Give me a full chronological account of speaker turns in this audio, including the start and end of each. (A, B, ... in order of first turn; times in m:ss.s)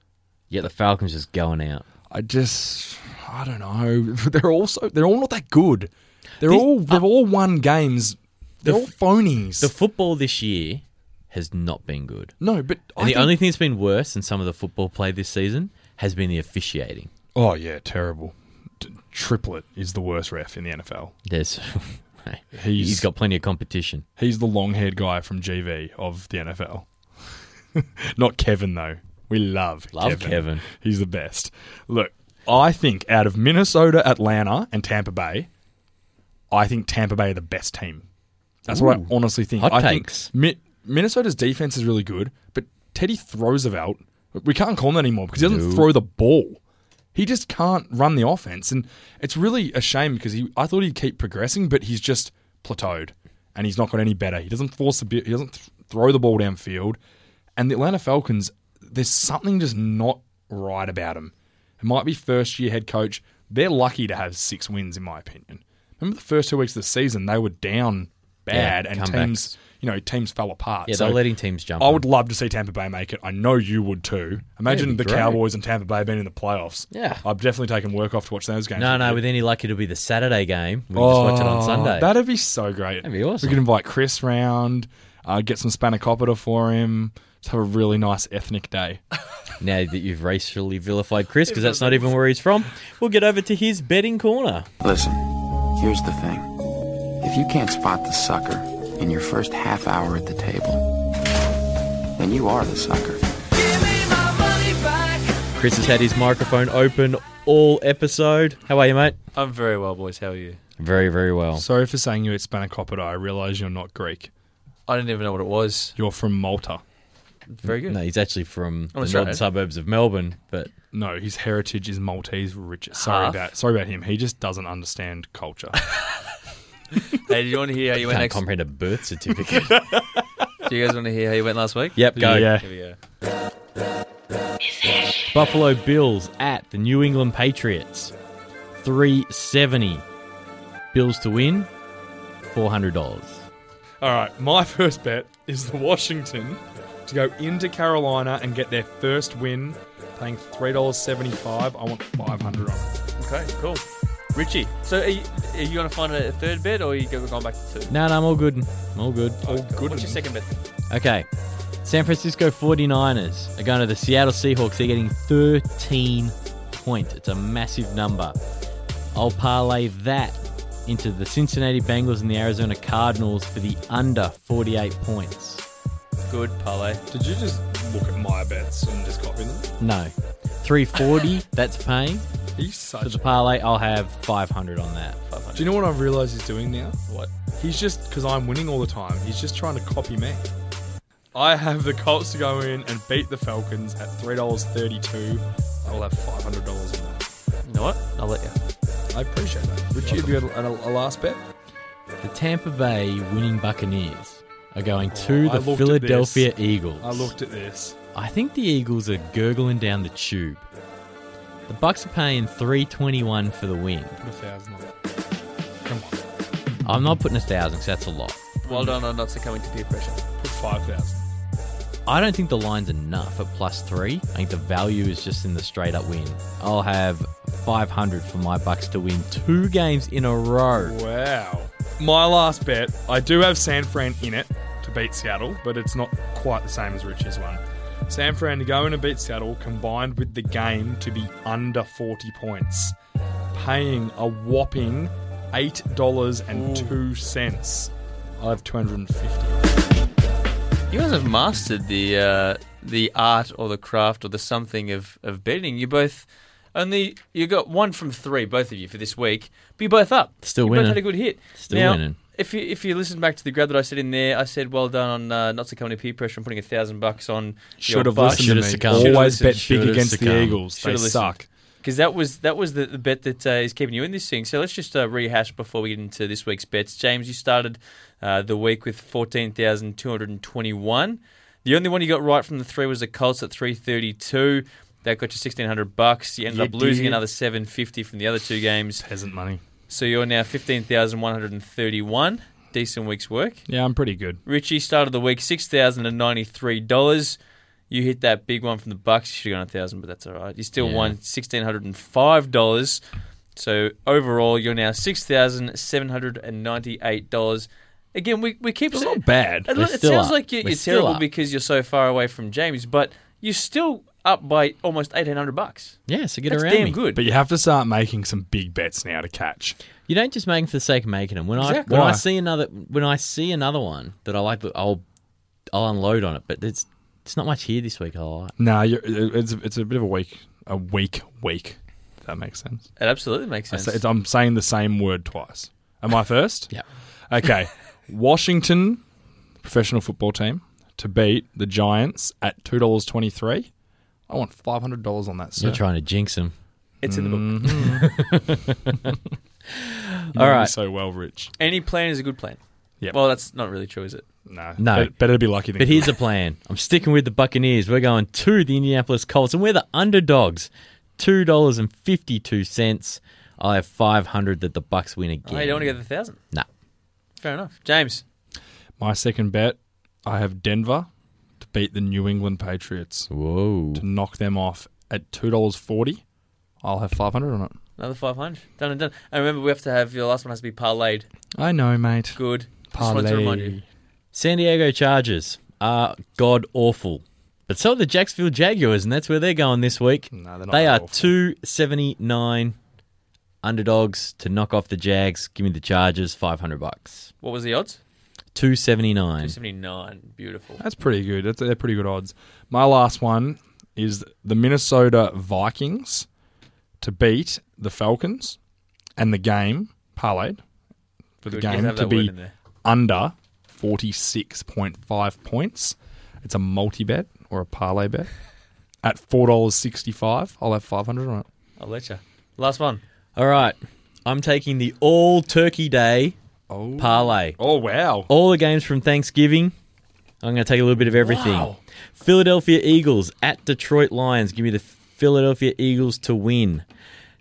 0:00.5-0:01.8 A
0:02.1-0:09.7 B
0:06.4-0:07.0 A
0:08.6-0:08.9 A
0:09.6-0:12.3 A
0:12.4-0:13.4 B
0:13.0-0:17.1 A
0:17.3-0:21.1 B
0:21.2-0:24.0 A
0:22.5-0:23.1 B
0:24.2-0:26.9 B
0:27.7-0:35.5 B
0:29.9-0:30.6 A
0:36.5-0:38.0 B
0:38.6-0:46.6 B
0:38.7-0:40.3 A
0:45.4-0:45.9 A
0:47.1-0:57.0 B
0:57.6-1:11.2 B
1:08.5-1:09.5 A
1:10.9-1:12.0 A
1:11.8-1:19.2 B
1:14.7-1:15.4 A
1:16.9-1:17.2 A
1:18.8-1:22.1 A
1:20.9-1:29.0 B
1:23.0-1:23.6 A
1:29.6-1:34.7 A
1:31.5-1:32.1 C
1:34.8-1:36.5 D
1:37.2-1:40.9 D
1:42.2-1:43.2 D
1:43.7-1:45.3 C
1:45.6-1:49.2 A
1:49.3-1:50.6 C
1:50.8-1:51.6 A
1:51.5-1:54.3 B
1:54.9-1:55.9 C
1:56.0-1:56.8 B
1:57.5-1:58.0 C
1:57.6-2:00.7 A
1:58.9-1:59.4 C
2:00.9-2:05.8 B
2:02.9-2:03.4 C
2:07.0-2:08.4 C
2:08.0-2:09.8 A
2:09.7-2:10.2 B
2:10.6-2:13.0 C
2:12.0-2:12.6 A
2:12.2-2:12.7 B
2:15.3-2:18.1 A
2:18.8-2:20.0 A
2:20.9-2:21.7 A
2:22.5-2:23.4 A
2:24.0-2:33.0 B
2:33.2-2:37.9 C
2:37.9-2:39.4 A
2:39.4-2:40.2 B
2:39.4-2:40.5 C
2:40.9-2:41.3 A
2:41.8-2:48.4 A
2:49.1-2:55.6 A
2:56.3-2:57.0 C
2:57.1-2:59.7 B
2:59.8-3:02.2 A
3:02.6-3:03.3 B
3:03.0-3:05.2 A
3:05.3-3:05.8 C
3:05.5-3:07.0 B
3:07.6-3:10.5 B
3:11.3-3:17.3 B
3:17.6-3:18.5 C
3:19.1-3:21.4 B
3:22.2-3:27.3 A
3:25.1-3:28.0 B
3:28.1-3:30.6 A
3:31.7-3:34.2 A
3:34.2-3:34.9 B
3:35.8-3:36.2 B
3:36.8-3:38.4 A
3:38.6-3:40.2 C
3:38.7-3:39.0 B
3:40.4-3:41.2 B
3:42.0-3:51.0 A
3:50.7-4:02.9 B
4:03.5-4:09.7 B
4:06.5-4:07.0 C
4:10.9-4:29.5 C
4:20.4-4:21.0 A
4:21.6-4:22.2 A
4:27.8-4:31.5 B
4:28.2-4:30.6 A
4:30.8-4:49.0 C
4:46.5-4:47.2 B
4:49.0-4:49.6 B
4:49.9-4:53.6 C
4:53.7-4:54.4 B
4:54.4-4:57.4 C
4:57.9-5:03.0 C
5:00.8-5:01.1 A
5:03.5-5:16.0 C
5:08.9-5:09.7 B
5:09.7-5:11.2 A
5:16.1-5:17.0 A
5:16.5-5:17.2 C
5:17.1-5:19.8 B
5:20.1-5:25.0 A
5:21.6-5:21.9 C
5:21.8-5:22.2 B
5:25.7-5:28.5 A
5:28.6-5:32.9 B
5:33.0-5:34.0 C
5:33.7-5:36.7 B
5:37.3-5:39.0 B
5:39.6-5:43.7 B
5:44.3-5:45.8 B
5:45.6-5:46.5 A
5:47.0-5:48.0 C
5:47.0-5:48.1 B
5:47.6-5:49.2 A
5:49.7-5:50.7 A
5:50.3-5:51.5 B
5:51.6-5:52.6 C
5:53.1-5:54.2 C
5:54.5-5:56.2 B
5:54.8-5:55.1 A
5:55.8-6:06.0 A
6:05.4-6:06.4 C
6:07.4-6:08.2 C
6:09.0-6:11.1 B
6:11.6-6:13.3 B
6:13.3-6:14.0 A
6:14.0-6:16.2 B
6:16.8-6:17.8 B
6:18.0-6:21.3 C
6:21.6-6:22.4 B
6:22.4-6:23.8 C
6:22.9-6:23.8 B
6:24.3-6:32.8 A
6:30.3-6:31.3 B
6:33.6-6:37.3 A
6:37.4-6:38.0 C
6:38.5-6:39.5 A
6:39.4-6:40.8 C
6:40.8-6:46.3 B
6:47.0-6:48.6 B
6:49.2-6:50.6 B
6:51.4-6:58.3 B
6:51.5-6:52.5 C
6:59.0-7:01.4 B
7:01.8-7:03.0 C
7:03.4-7:06.4 A
7:06.7-7:08.3 B
7:07.0-7:07.6 A
7:08.3-7:09.7 A
7:10.4-7:16.8 A
7:11.2-7:11.8 B